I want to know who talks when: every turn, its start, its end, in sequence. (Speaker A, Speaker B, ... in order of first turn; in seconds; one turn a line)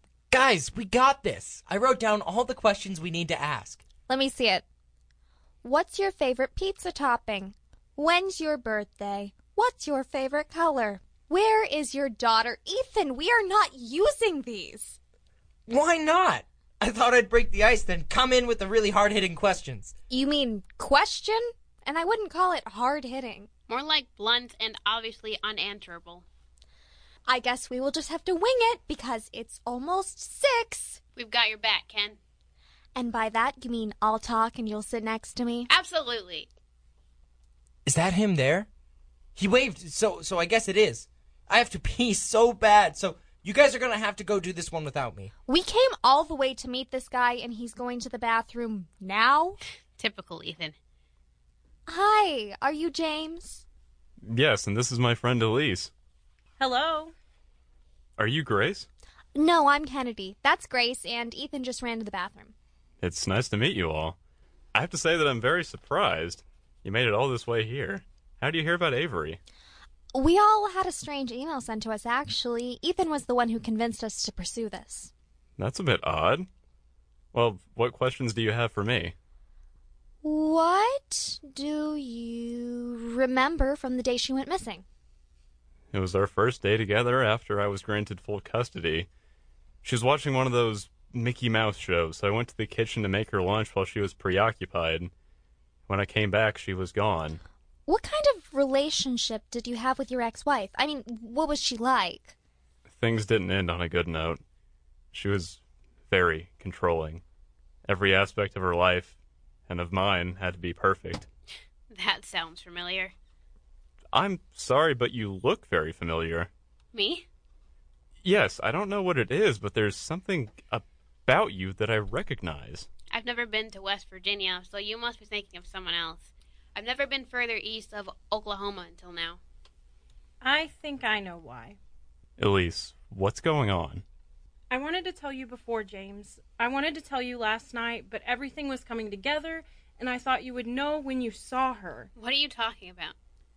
Speaker A: 0.3-3.8
Speaker B: 4.1-4.6
Speaker B: 5.6-14.9
Speaker A: 15.7-19.9
Speaker B: 20.1-23.5
Speaker C: 23.7-26.2
Speaker B: 27.3-31.0
Speaker C: 31.1-32.2
Speaker B: 32.9-35.7
Speaker C: 35.7-36.5
Speaker A: 37.8-38.7
Speaker A: 39.4-45.3
Speaker B: 45.5-49.6
Speaker C: 50.0-50.7
Speaker B: 51.9-53.6
Speaker D: 54.2-55.9
Speaker E: 56.6-57.1
Speaker D: 58.2-58.9
Speaker B: 59.3-62.5
Speaker D: 63.0-64.2
Speaker D: 64.7-69.4
Speaker B: 70.1-75.1
Speaker D: 75.6-76.5
Speaker D: 77.3-79.1
Speaker B: 80.2-84.8
Speaker D: 85.9-89.1
Speaker D: 89.8-95.1
Speaker D: 95.9-97.4
Speaker B: 97.9-102.3
Speaker D: 102.9-104.4
Speaker D: 105.1-107.2
Speaker D: 107.8-109.2
Speaker D: 109.7-111.3
Speaker C: 111.9-113.1
Speaker D: 114.1-116.5
Speaker C: 116.9-117.2
Speaker D: 118.2-122.9
Speaker C: 123.1-129.4
Speaker E: 130.4-131.8
Speaker D: 132.4-134.0
Speaker E: 134.7-142.1
Speaker C: 142.2-143.1